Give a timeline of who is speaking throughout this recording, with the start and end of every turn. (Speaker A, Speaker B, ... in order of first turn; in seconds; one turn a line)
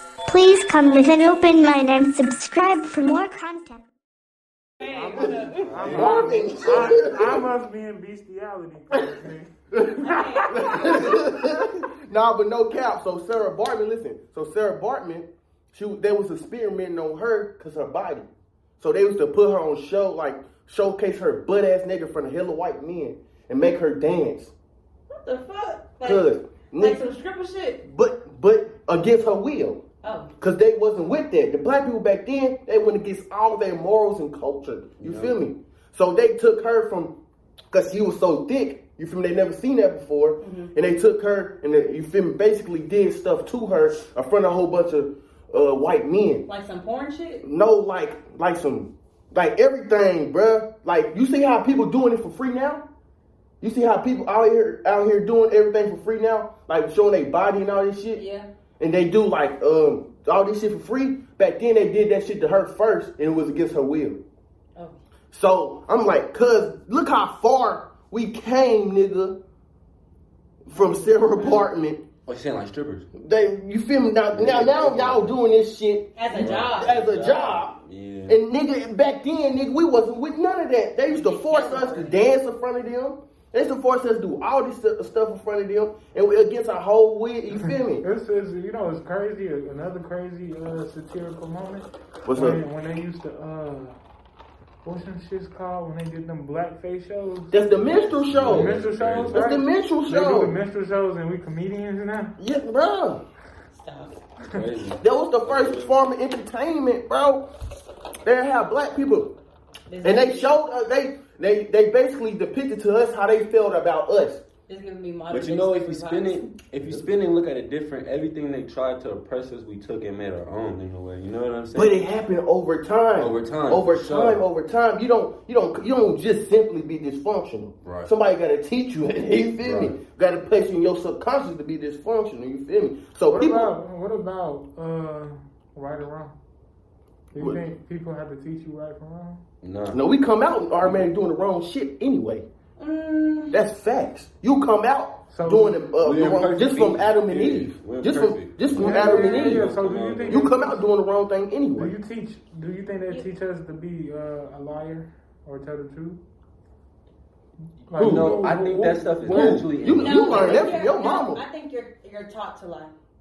Speaker A: 0.3-3.9
Speaker B: 4.8-6.2
Speaker C: 4.9-9.5
Speaker D: 5.2-7.5
Speaker E: 5.6-6.5
Speaker D: 9.7-18.3
Speaker B: 10.0-11.2
Speaker D: 18.8-24.5
Speaker B: 25.1-26.3
Speaker D: 26.0-27.0
Speaker B: 26.8-27.8
Speaker D: 27.8-29.8
Speaker B: 30.0-30.3
Speaker D: 30.4-37.2
Speaker E: 35.0-35.4
Speaker D: 37.7-46.5
Speaker B: 40.4-40.7
Speaker B: 46.5-47.4
Speaker D: 47.4-52.9
Speaker D: 53.6-58.2
Speaker B: 58.1-58.5
Speaker D: 58.8-64.2
Speaker D: 65.3-69.4
Speaker D: 70.7-72.0
Speaker B: 70.7-71.7
Speaker E: 72.3-73.1
Speaker D: 73.2-76.1
Speaker E: 74.3-75.4
Speaker B: 76.2-77.0
Speaker E: 76.3-78.4
Speaker D: 76.8-77.8
Speaker D: 78.3-88.0
Speaker B: 81.1-82.2
Speaker C: 87.6-94.0
Speaker D: 92.3-92.6
Speaker C: 94.8-97.6
Speaker D: 97.5-100.5
Speaker E: 97.7-99.4
Speaker C: 98.4-102.4
Speaker D: 102.4-103.2
Speaker B: 103.7-104.2
Speaker E: 104.5-106.0
Speaker D: 105.0-107.5
Speaker D: 108.2-109.3
Speaker B: 109.9-110.6
Speaker D: 110.0-114.4
Speaker B: 114.7-116.5
Speaker E: 115.3-122.0
Speaker D: 116.8-117.1
Speaker D: 121.7-133.7
Speaker E: 123.2-124.4
Speaker E: 127.8-128.1
Speaker E: 129.6-130.0
Speaker C: 133.3-136.3
Speaker C: 137.3-139.4
Speaker D: 137.4-137.6
Speaker E: 139.6-140.0
Speaker D: 139.9-142.5
Speaker E: 140.8-141.1
Speaker B: 142.8-143.6
Speaker D: 143.5-149.7
Speaker C: 145.3-145.8
Speaker E: 146.0-150.5
Speaker C: 148.8-150.8
Speaker D: 150.3-151.9
Speaker C: 151.8-156.2
Speaker E: 157.9-160.7
Speaker C: 157.9-159.7
Speaker D: 158.0-158.4
Speaker D: 159.3-161.4
Speaker B: 159.9-162.9